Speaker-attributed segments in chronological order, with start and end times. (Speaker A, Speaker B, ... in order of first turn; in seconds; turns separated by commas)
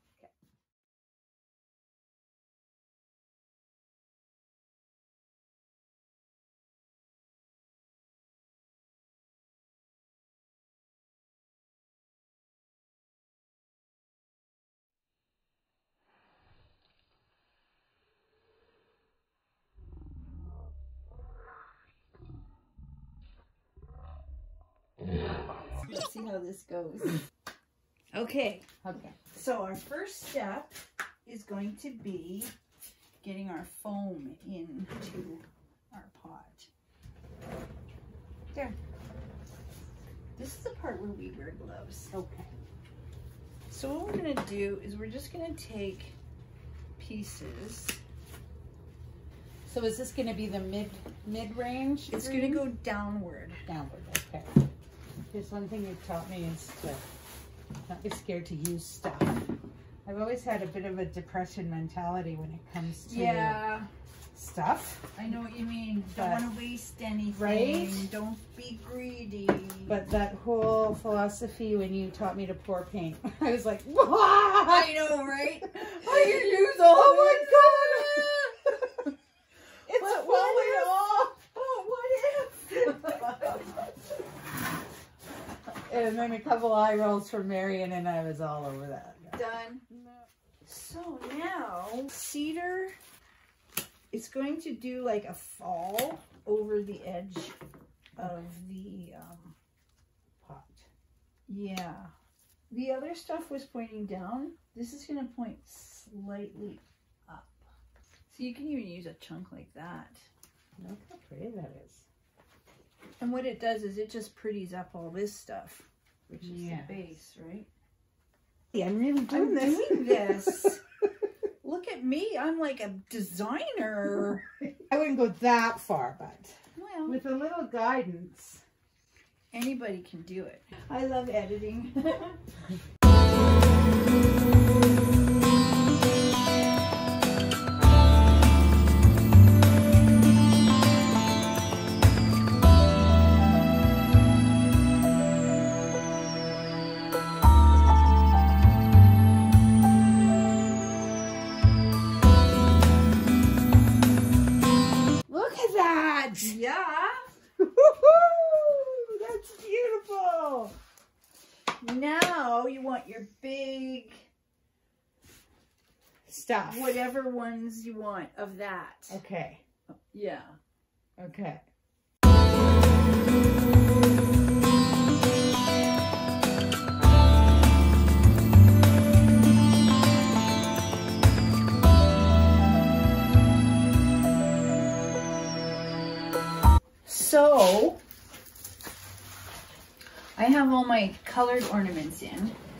Speaker A: 25.8-27.2, Speaker A: 28.1-28.6, Speaker B: 28.8-29.1, Speaker A: 29.3-32.5, Speaker A: 33.2-36.7, Speaker A: 40.4-42.1, Speaker B: 42.1-42.5, Speaker A: 43.7-46.1, Speaker A: 47.0-48.0, Speaker B: 49.6-52.6, Speaker A: 52.1-53.6, Speaker B: 53.7-54.5, Speaker B: 55.3-57.0, Speaker B: 57.9-59.5, Speaker B: 60.0-63.7, Speaker A: 63.1-63.9, Speaker B: 64.3-65.1, Speaker A: 65.1-70.0, Speaker B: 66.1-66.5, Speaker B: 67.3-68.1, Speaker B: 69.9-75.1, Speaker A: 74.6-78.9, Speaker B: 76.7-78.2, Speaker A: 79.9-83.9, Speaker B: 79.9-81.1, Speaker B: 85.8-90.2, Speaker A: 89.3-89.8, Speaker A: 90.6-93.0, Speaker A: 94.1-97.5, Speaker A: 98.2-99.5, Speaker B: 100.4-100.8, Speaker A: 101.5-102.1, Speaker A: 102.7-107.7, Speaker A: 108.3-110.3, Speaker B: 110.8-112.0, Speaker A: 113.2-117.7, Speaker B: 116.4-117.0, Speaker B: 118.7-120.5, Speaker A: 119.3-120.8, Speaker A: 121.6-124.4, Speaker B: 124.9-128.6, Speaker A: 126.8-127.2, Speaker A: 129.5-132.4, Speaker B: 155.3-156.5, Speaker A: 156.4-157.2, Speaker B: 157.6-160.7, Speaker A: 161.8-164.3, Speaker B: 166.3-167.0, Speaker A: 166.7-169.2, Speaker B: 169.1-169.6, Speaker A: 170.1-170.6, Speaker B: 171.2-171.6, Speaker A: 187.1-188.0, Speaker A: 190.3-192.6